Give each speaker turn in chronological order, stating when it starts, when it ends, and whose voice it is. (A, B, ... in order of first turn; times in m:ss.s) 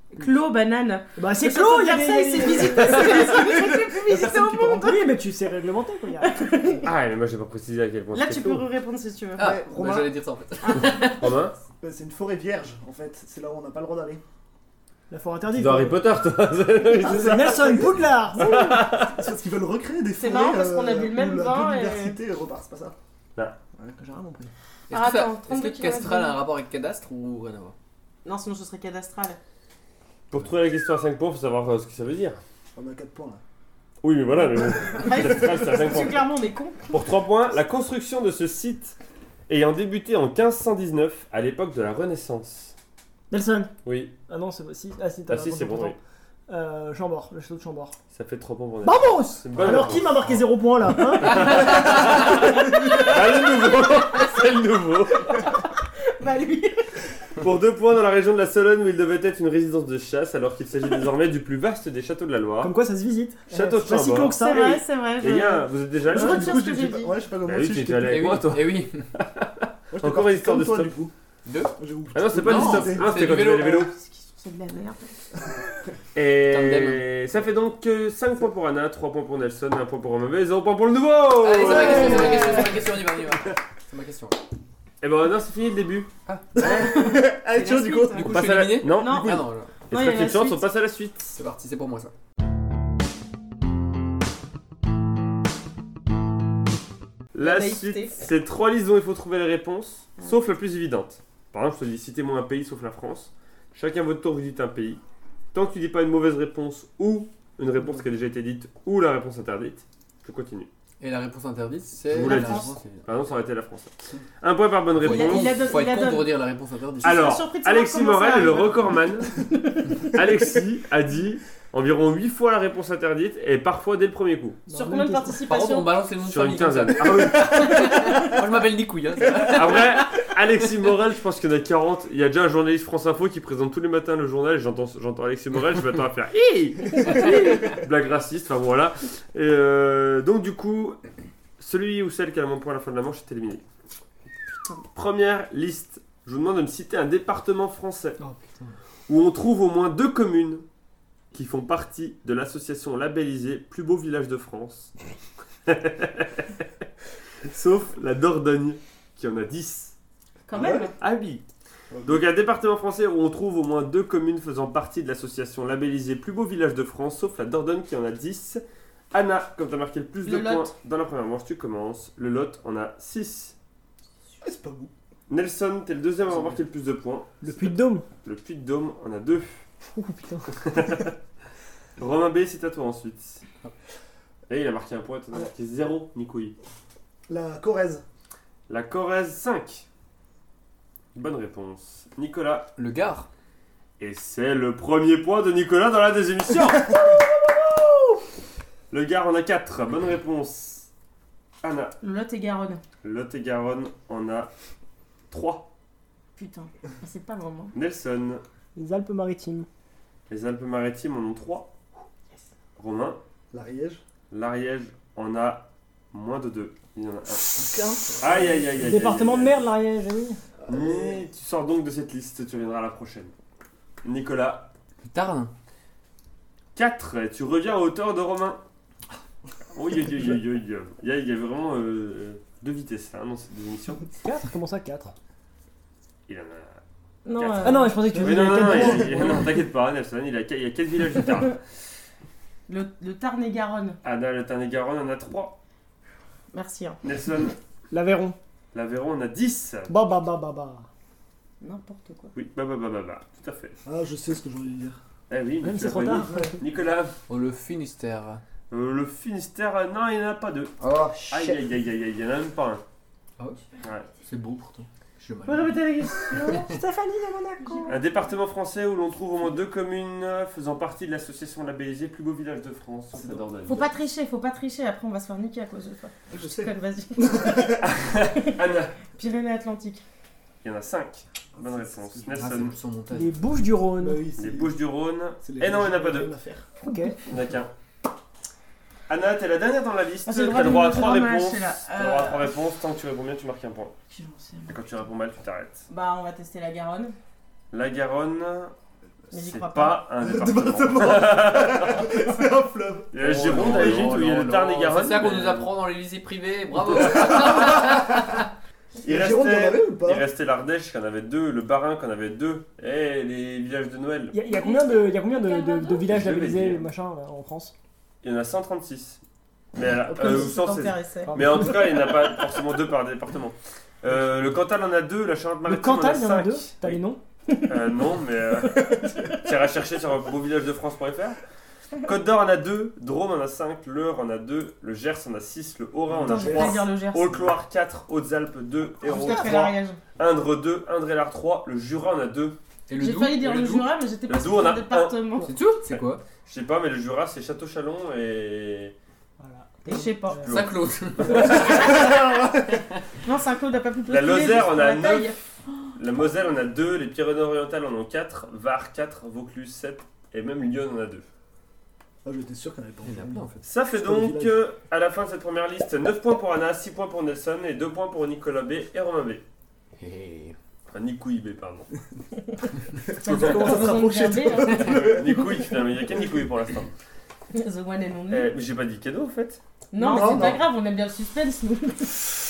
0:00.1-0:05.0 A
0:01.2-0:03.2 B
0:02.8-0:05.0 C
0:04.8-0:06.7 B
0:06.2-0:06.8 A
0:06.8-0:08.6 D
0:08.1-0:09.6 A
0:09.4-0:11.3 E
0:09.4-0:10.1 C
0:10.6-0:11.2 A
0:11.0-0:11.5 D
0:11.8-0:14.2 C
0:15.1-0:16.0 B
0:15.5-0:19.2 D
0:17.0-0:18.8 B
0:17.3-0:17.6 C
0:18.5-0:23.0 C
0:20.2-0:22.2 A
0:23.9-0:24.5 B
0:24.9-0:26.4 A
0:24.9-0:27.7 E
0:28.2-0:29.4 A
0:30.3-0:32.4 D
0:32.7-0:33.4 C
0:34.0-0:36.3 D
0:34.8-0:36.9 A
0:36.9-0:39.0 D
0:39.5-0:42.7 D
0:43.3-0:43.7 B
0:43.8-0:44.1 D
0:44.3-0:47.9 B
0:45.3-0:46.0 D
0:48.1-0:50.4 D
0:48.8-0:51.8 B
0:51.1-0:55.5 D
0:51.7-0:53.2 C
0:56.1-0:57.0 A
0:57.4-1:02.8 D
1:02.6-1:04.8 B
1:03.5-1:04.6 D
1:04.3-1:07.2 A
1:05.2-1:06.6 D
1:06.0-1:08.2 C
1:07.4-1:10.9 D
1:08.0-1:09.1 E
1:09.9-1:11.1 C
1:11.4-1:11.7 E
1:11.8-1:13.1 C
1:12.1-1:13.9 D
1:12.3-1:13.9 E
1:13.6-1:15.0 A
1:16.1-1:22.7 D
1:16.4-1:17.0 E
1:21.4-1:24.4 E
1:25.0-1:26.1 D
1:26.5-1:28.5 C
1:26.6-1:30.7 A
1:28.1-1:29.7 E
1:28.3-1:31.4 D
1:31.3-1:32.1 E
1:37.3-1:45.0 D
1:37.4-1:38.2 A
1:45.5-1:50.7 D
1:51.0-1:53.0 E
1:52.1-1:55.6 D
1:52.2-1:52.7 A
1:54.9-1:57.3 E
1:55.0-1:56.4 A
1:57.0-1:59.4 D
1:57.0-2:00.1 A
2:00.1-2:04.6 D
2:04.7-2:05.4 B
2:04.7-2:06.0 A
2:05.5-2:10.2 E
2:06.2-2:08.2 D
2:07.6-2:08.0 A
2:09.4-2:21.0 D
2:21.6-2:23.6 D
2:24.9-2:28.2 D
2:29.1-2:30.6 D
2:31.3-2:34.9 D
2:35.6-2:36.5 D
2:37.4-2:39.9 D
2:40.5-2:40.9 A
2:40.5-2:40.9 C
2:40.6-2:41.4 D
2:41.9-2:42.2 C
2:42.0-2:53.5 D
2:50.2-2:50.7 A
2:54.4-2:54.9 C
2:55.3-2:59.6 D
2:57.4-2:58.0 B
2:59.9-3:00.9 B
3:00.5-3:01.1 D
3:02.0-3:03.4 D
3:04.5-3:06.6 D
3:07.3-3:08.0 C
3:08.7-3:09.8 D
3:11.1-3:12.7 D
3:12.8-3:13.3 E
3:14.0-3:18.2 D
3:18.9-3:20.9 D
3:21.6-3:21.9 D
3:22.0-3:22.8 A
3:23.0-3:24.5 D
3:25.3-3:25.7 D
3:26.4-3:27.7 A
3:27.7-3:28.4 D
3:28.8-3:29.6 B
3:30.3-3:31.7 D
3:32.8-3:33.2 D
3:33.5-3:34.0 C
3:34.3-3:37.6 D
3:37.4-3:39.2 C
3:38.2-3:39.6 D
3:38.8-3:40.4 B
3:40.6-3:41.2 C
3:40.7-3:43.3 D
3:44.0-3:44.7 D
3:45.0-3:45.5 E
3:46.7-3:48.6 D
3:49.7-3:54.1 D
3:54.2-3:55.1 B
3:56.3-3:56.8 D
3:57.2-3:58.0 A
3:57.4-4:01.6 D
3:57.6-3:59.4 B
3:58.1-3:59.4 C
4:02.7-4:04.0 A
4:04.0-4:05.6 D
4:06.5-4:07.0 A
4:07.0-4:07.5 D
4:07.9-4:08.4 B
4:08.7-4:09.9 D
4:09.9-4:10.8 B
4:11.6-4:12.3 A
4:12.3-4:13.8 D
4:13.8-4:15.0 C
4:15.3-4:17.1 D
4:15.6-4:16.6 B
4:16.0-4:16.6 C
4:17.3-4:18.4 E
4:18.7-4:20.8 D
4:20.8-4:21.6 E
4:21.3-4:22.8 D
4:23.8-4:24.1 D
4:24.2-4:26.7 E
4:25.4-4:26.7 A
4:26.4-4:28.0 B
4:27.6-4:28.0 A
4:27.9-4:33.9 D
4:33.1-4:33.4 C
4:33.6-4:38.5 A
4:36.3-4:37.8 C
4:37.8-4:38.9 D
4:39.1-4:40.0 A
4:40.6-4:42.7 D
4:41.6-4:42.6 C
4:42.3-4:43.3 E
4:43.1-4:44.3 B
4:44.0-4:44.8 C
4:44.4-4:46.3 D
4:45.4-4:46.7 C
4:46.8-4:47.2 B
4:47.2-4:47.7 D
4:49.1-4:54.0 D
4:50.2-4:52.6 A
4:54.1-4:54.8 A
4:54.7-4:55.8 D
4:55.9-4:57.1 A
4:57.7-4:58.7 D
4:59.3-5:00.0 A
4:59.3-5:02.1 D
5:00.2-5:04.2 C
5:03.1-5:05.7 D
5:03.2-5:08.4 E
5:06.9-5:08.0 C
5:09.0-5:10.3 C
5:09.0-5:14.4 D
5:14.3-5:17.7 B
5:14.4-5:16.0 A
5:16.0-5:16.8 D
5:18.2-5:19.2 D
5:19.7-5:27.0 D
5:20.1-5:21.4 A
5:20.1-5:20.5 C
5:21.2-5:22.1 B
5:25.6-5:27.2 B
5:27.7-5:31.4 D
5:32.0-5:42.6 D
5:36.1-5:36.9 C
5:36.2-5:37.5 A
5:39.0-5:40.0 A
5:42.9-5:43.9 E
5:43.0-5:45.5 A
5:44.3-5:45.2 D
5:45.4-5:46.2 E
5:45.9-5:48.9 D
5:49.4-5:50.5 B
5:49.8-5:50.6 A
5:50.4-5:52.1 D
5:50.4-5:52.1 E
5:51.6-5:52.6 C
5:53.2-5:55.4 A
5:54.1-5:55.4 D
5:55.9-6:01.2 D
6:02.2-6:04.6 C
6:03.0-6:03.5 E
6:03.6-6:09.4 D
6:10.0-6:10.5 E
6:10.9-6:11.9 D
6:13.2-6:15.2 A
6:13.2-6:15.6 C
6:13.3-6:13.8 D
6:14.7-6:16.9 D
6:17.5-6:18.5 A
6:18.3-6:19.6 D
6:19.9-6:22.3 A
6:20.0-6:20.6 C